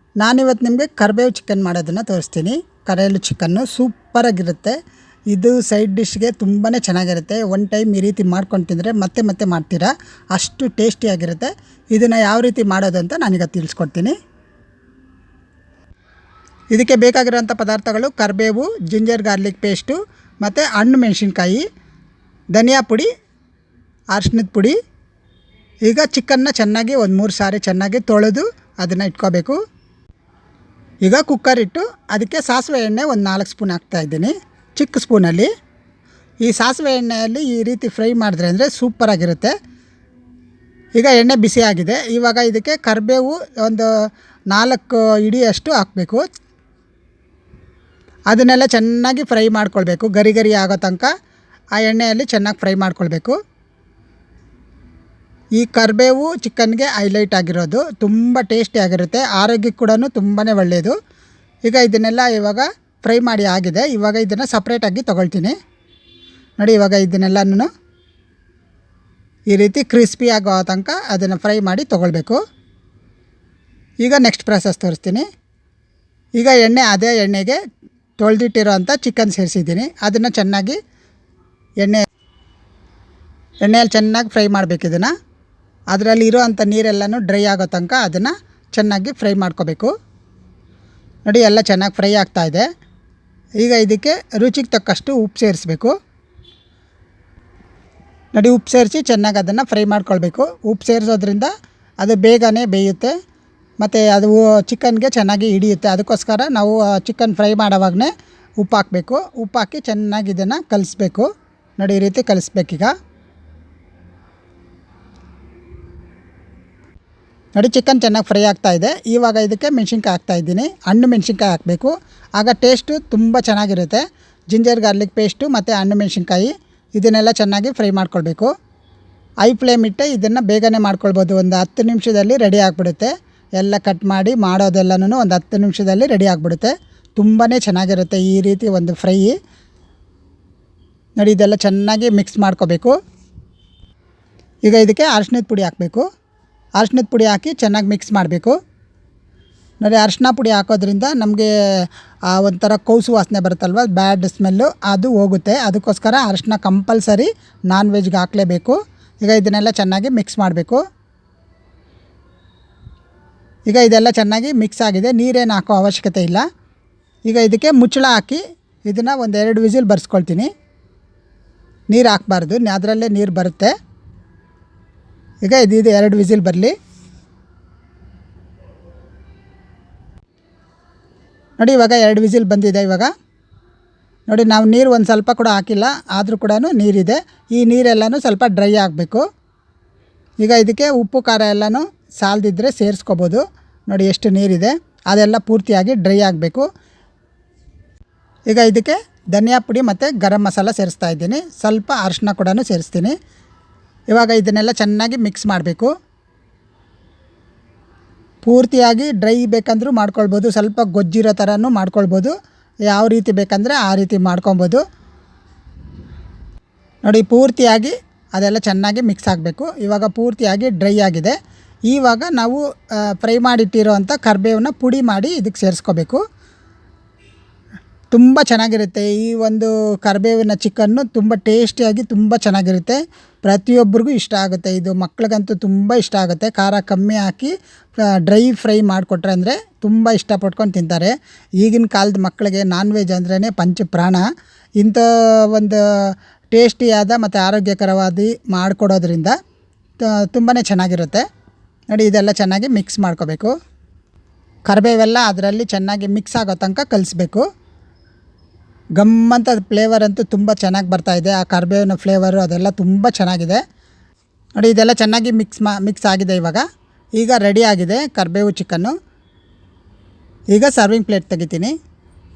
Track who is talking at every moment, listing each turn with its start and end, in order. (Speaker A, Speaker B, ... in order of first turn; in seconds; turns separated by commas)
Speaker A: 0.2-4.8, Speaker A: 5.3-14.2, Speaker A: 16.7-21.6, Speaker A: 22.5-23.1, Speaker A: 24.1-24.8, Speaker A: 25.8-29.6, Speaker A: 31.0-35.5, Speaker A: 36.4-39.5, Speaker A: 41.0-43.9, Speaker A: 44.5-46.2, Speaker A: 48.3-51.1, Speaker A: 51.8-53.4, Speaker A: 55.6-61.0, Speaker A: 61.6-65.6, Speaker A: 66.6-67.7, Speaker A: 69.5-72.4, Speaker A: 74.0-75.3, Speaker A: 76.4-77.6, Speaker A: 78.2-80.8, Speaker A: 83.6-85.1, Speaker A: 85.9-89.9, Speaker A: 91.3-92.7, Speaker A: 93.6-95.9, Speaker A: 98.3-103.2, Speaker A: 103.8-112.9, Speaker A: 117.6-128.5, Speaker A: 129.4-139.3, Speaker A: 141.2-142.9, Speaker A: 144.7-146.0, Speaker A: 146.8-148.6, Speaker A: 149.8-151.5, Speaker A: 152.3-160.8, Speaker A: 163.7-166.4, Speaker A: 167.3-170.5, Speaker A: 171.9-173.7, Speaker A: 175.4-176.7, Speaker A: 181.6-183.1, Speaker A: 184.3-189.2, Speaker A: 190.4-196.7, Speaker A: 198.5-203.2, Speaker A: 204.1-205.9, Speaker A: 208.4-212.3, Speaker A: 212.9-214.8, Speaker A: 217.1-221.3, Speaker A: 221.9-226.2, Speaker A: 228.1-237.5, Speaker A: 238.1-244.2, Speaker A: 244.8-249.3, Speaker A: 250.0-251.2, Speaker A: 251.9-253.5, Speaker A: 254.7-257.5, Speaker A: 259.0-263.6, Speaker A: 264.6-266.6, Speaker A: 267.2-268.9, Speaker A: 270.5-271.7